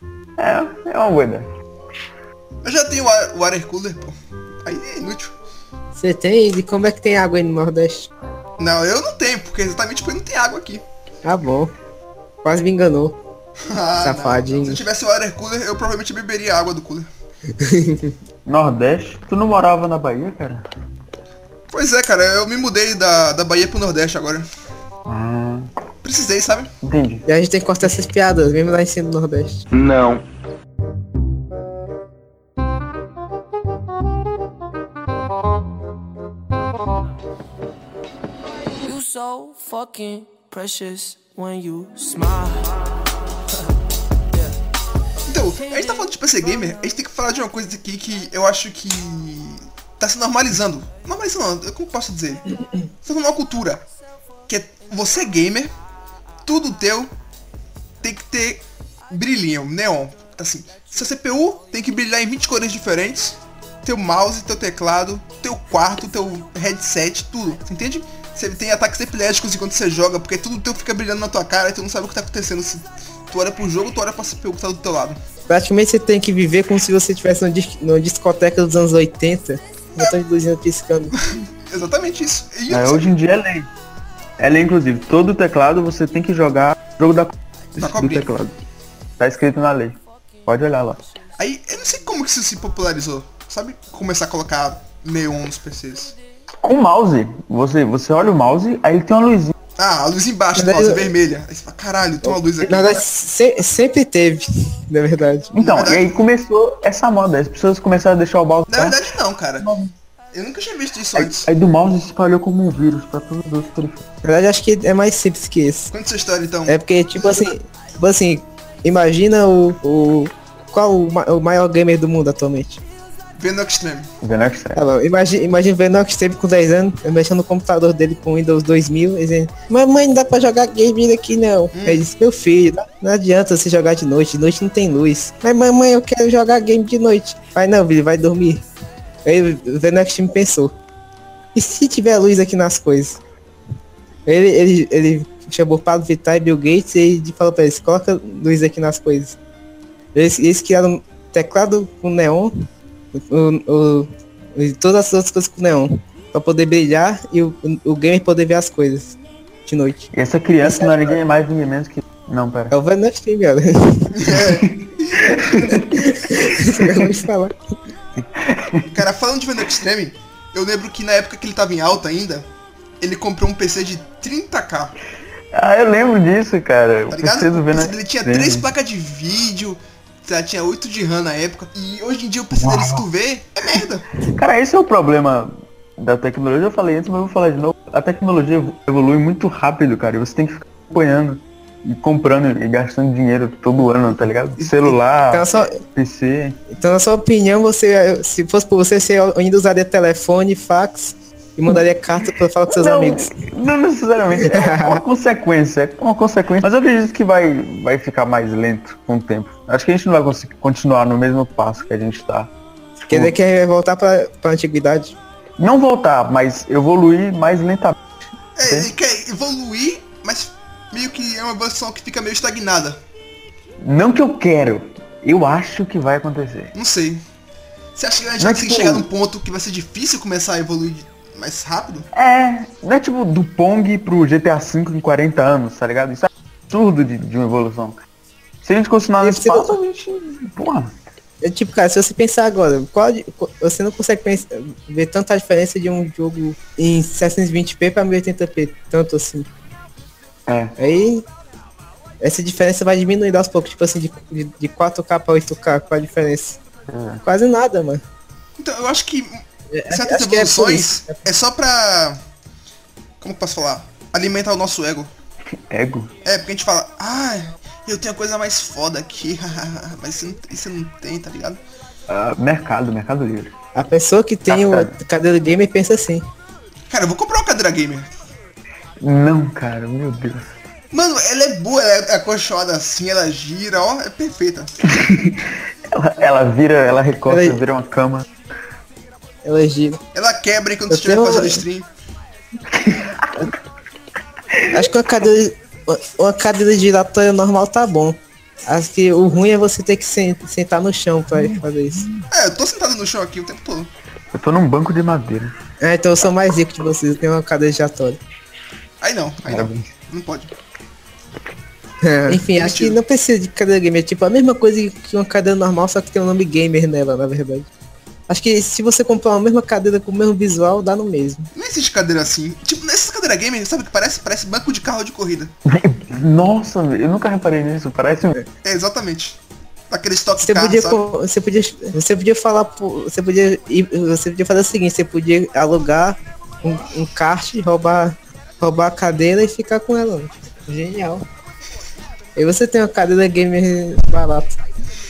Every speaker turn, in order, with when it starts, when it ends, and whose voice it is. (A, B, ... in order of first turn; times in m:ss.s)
0:00.4-0:01.5 A
0:02.6-0:05.4 B
0:05.9-0:08.1 C
0:08.6-0:10.8 B
0:11.2-0:11.7 C
0:12.4-0:13.2 C
0:13.6-0:17.1 B
0:14.0-0:14.8 C
0:17.6-0:18.1 C
0:18.4-0:20.6 A
0:21.7-0:24.4 B
0:25.1-0:25.7 A
0:26.0-0:26.7 B
0:26.8-0:27.2 A
0:27.2-0:29.6 C
0:38.8-0:42.8 D
0:45.3-0:52.5 B
0:53.0-0:53.8 B
0:54.5-0:55.7 B
0:56.4-0:57.1 B
0:58.0-1:15.2 B
1:15.5-1:21.1 C
1:21.2-1:23.1 B
1:22.7-1:23.7 A
1:24.4-1:28.6 A
1:27.8-1:28.3 B
1:29.2-1:31.0 A
1:31.4-1:36.2 B
1:36.6-1:39.5 A
1:39.8-1:43.0 B
1:40.6-1:41.1 C
1:42.2-1:45.5 C
1:45.5-1:49.0 A
1:45.6-1:46.2 B
1:48.7-1:49.7 B
1:49.6-1:49.9 A
1:50.3-1:51.5 B
1:51.1-1:54.0 A
1:54.2-1:55.9 C
1:55.9-1:56.8 B
1:56.7-2:02.8 C
2:03.4-2:04.1 B
2:04.2-2:04.8 A
2:04.7-2:18.6 C
2:11.7-2:12.0 B
2:19.2-2:20.7 C
2:21.5-2:23.2 C
2:24.2-2:29.4 C
2:30.1-2:32.5 C
2:33.1-2:40.1 C
2:40.1-2:42.7 A
2:40.6-2:41.1 C
2:42.7-2:44.4 C
2:44.1-2:45.8 B
2:44.4-2:46.1 A
2:45.7-2:47.6 C
2:46.7-2:47.1 A
2:48.2-2:48.9 A
2:48.9-2:52.5 B
2:53.0-2:55.0 B
2:55.5-2:58.7 A
2:57.1-3:04.1 B
3:02.5-3:03.0 A
3:04.2-3:16.6 A
3:14.6-3:15.8 C
3:16.7-3:23.4 C
3:22.7-3:32.5 A
3:24.4-3:25.0 C
3:33.1-3:33.4 A
3:33.1-3:35.2 C
3:35.6-3:38.0 A
3:38.6-3:43.0 B
3:43.8-3:46.7 A
3:46.7-3:47.2 B
3:47.9-3:52.1 B
3:48.4-3:49.0 A
3:52.1-3:58.0 A
3:58.6-4:01.0 A
3:59.2-3:59.8 C
4:01.4-4:09.5 C
4:10.5-4:10.7 A
4:10.8-4:11.2 C
4:12.2-4:16.6 C
4:16.9-4:17.2 A
4:17.2-4:18.0 C
4:18.6-4:22.2 B
4:19.7-4:21.2 C
4:23.2-4:25.1 B
4:25.7-4:26.1 A
4:26.2-4:31.6 B
4:32.1-4:33.5 A
4:33.7-4:36.3 C
4:34.5-4:35.0 A
4:36.9-4:38.1 B
4:39.0-4:40.5 A
4:40.9-4:44.7 B
4:44.9-4:48.3 A
4:47.3-4:47.6 C
4:49.4-4:50.0 C
4:50.1-4:51.9 B
4:50.9-4:51.6 C
4:52.7-4:53.5 A
4:54.6-4:54.8 A
4:54.7-5:02.1 C
5:01.4-5:02.2 A
5:02.3-5:03.9 B
5:04.3-5:05.5 A
5:05.8-5:08.2 C
5:09.0-5:10.5 B
5:09.4-5:09.9 A
5:12.0-5:17.7 C
5:12.3-5:13.0 B
5:18.3-5:21.5 C
5:21.5-5:25.5 B
5:25.6-5:28.4 A
5:28.6-5:31.0 B
5:30.4-5:41.2 C
5:42.4-5:44.6 C